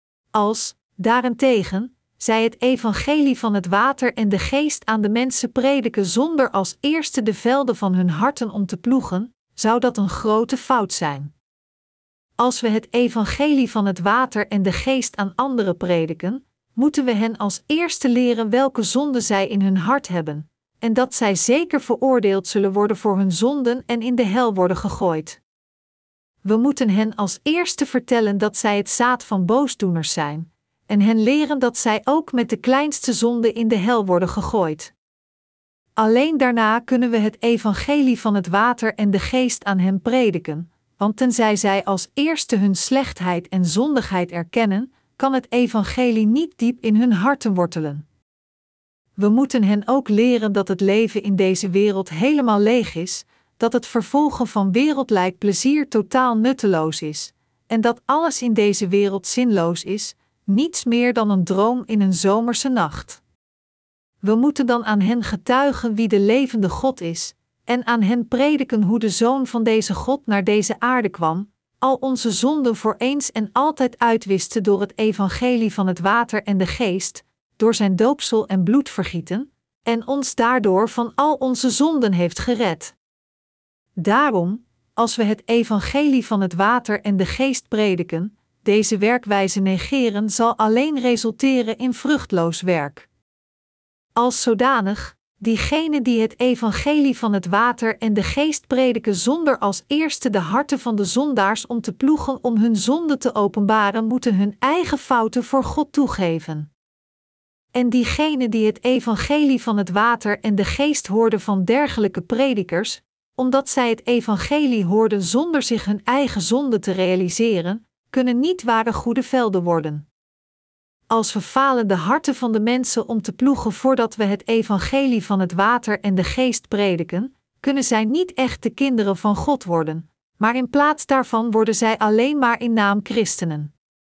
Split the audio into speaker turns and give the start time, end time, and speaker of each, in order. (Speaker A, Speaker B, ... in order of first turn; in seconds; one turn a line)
Speaker A: 0.3-11.3
Speaker A: 12.4-25.4
Speaker A: 26.4-34.9
Speaker A: 36.0-48.0
Speaker A: 49.2-63.2
Speaker A: 64.2-83.0
Speaker A: 84.0-93.1
Speaker A: 94.2-106.7
Speaker A: 107.7-120.1
Speaker A: 121.1-133.7